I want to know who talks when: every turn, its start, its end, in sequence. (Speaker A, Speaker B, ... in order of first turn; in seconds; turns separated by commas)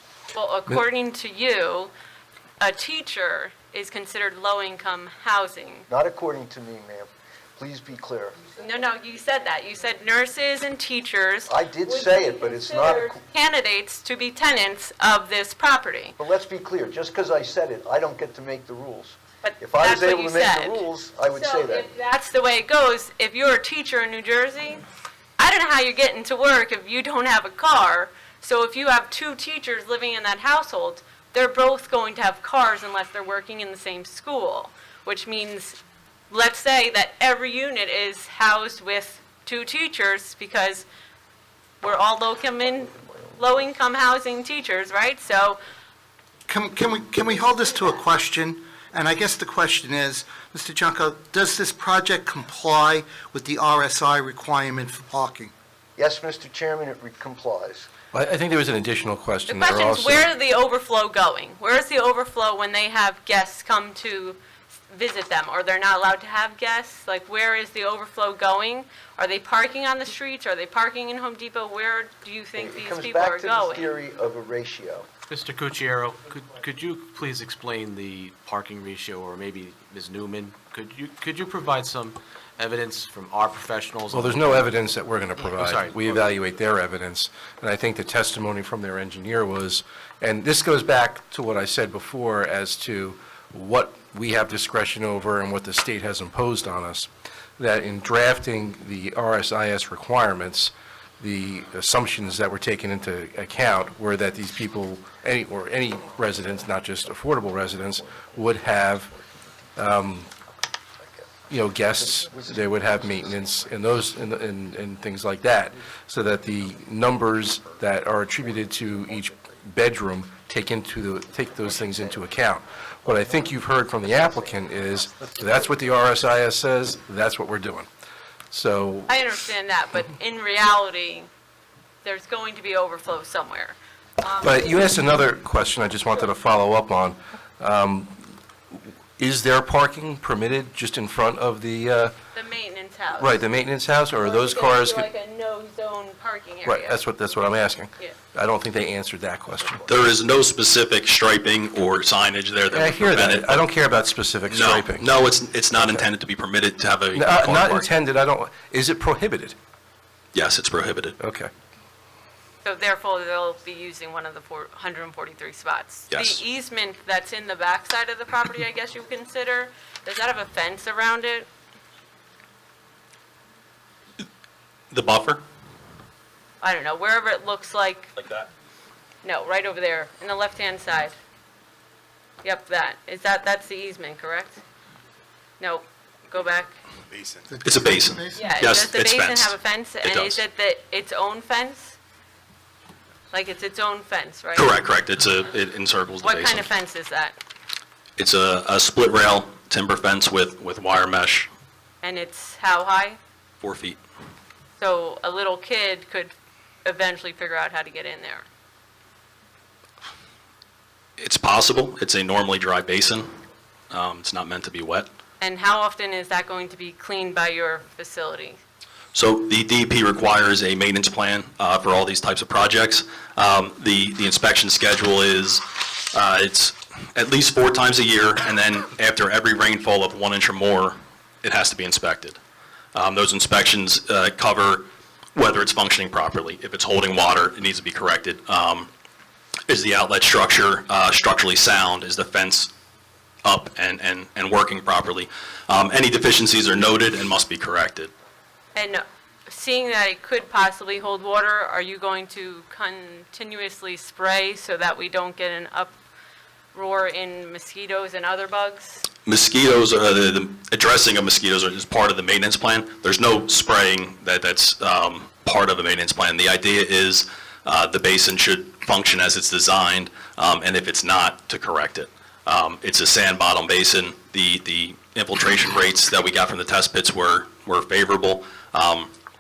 Speaker A: 0.3-1.9, Speaker A: 2.6-5.9, Speaker B: 5.9-8.4, Speaker A: 8.6-16.2, Speaker B: 11.5-13.2, Speaker B: 16.2-21.9, Speaker A: 19.4-24.8, Speaker A: 25.4-35.8, Speaker A: 36.3-40.9, Speaker A: 41.8-45.6, Speaker B: 42.7-43.5, Speaker C: 46.5-55.5, Speaker B: 56.0-57.9, Speaker D: 58.1-60.2, Speaker A: 59.5-73.9, Speaker B: 72.6-75.1, Speaker E: 75.3-84.7, Speaker D: 84.1-109.2, Speaker E: 85.4-86.1, Speaker B: 107.9-108.4, Speaker D: 109.8-110.3, Speaker B: 111.0-111.3, Speaker D: 111.5-127.9, Speaker B: 112.0-113.8, Speaker B: 118.4-119.6, Speaker B: 121.6-122.3, Speaker B: 123.0-125.8, Speaker D: 128.5-129.1, Speaker A: 129.1-131.3, Speaker A: 132.0-135.0, Speaker D: 134.4-142.1, Speaker A: 142.3-143.4, Speaker D: 143.2-145.1, Speaker A: 144.2-147.0, Speaker D: 146.7-149.9, Speaker F: 149.8-153.7, Speaker D: 152.7-155.1, Speaker F: 154.5-157.9, Speaker D: 155.7-156.1, Speaker D: 157.1-159.6, Speaker F: 160.3-161.2, Speaker D: 161.2-161.5, Speaker A: 162.6-171.5, Speaker F: 166.1-166.4, Speaker F: 174.9-175.4, Speaker A: 176.6-178.2, Speaker F: 178.2-178.5, Speaker A: 179.2-181.2, Speaker A: 182.4-184.6, Speaker A: 185.6-186.8, Speaker C: 187.5-188.4, Speaker F: 187.6-190.4, Speaker A: 188.3-192.0, Speaker A: 193.3-194.8, Speaker F: 194.6-196.7, Speaker A: 196.2-197.4, Speaker F: 198.2-201.5, Speaker A: 202.0-203.2, Speaker F: 203.6-204.0, Speaker A: 204.8-206.3, Speaker A: 206.8-208.4, Speaker F: 211.2-213.3, Speaker F: 213.9-215.1, Speaker A: 215.4-218.6, Speaker F: 219.1-232.4, Speaker F: 232.9-238.9, Speaker F: 239.7-242.7, Speaker F: 243.4-248.1, Speaker A: 248.8-255.9, Speaker A: 256.7-259.1, Speaker F: 259.3-279.1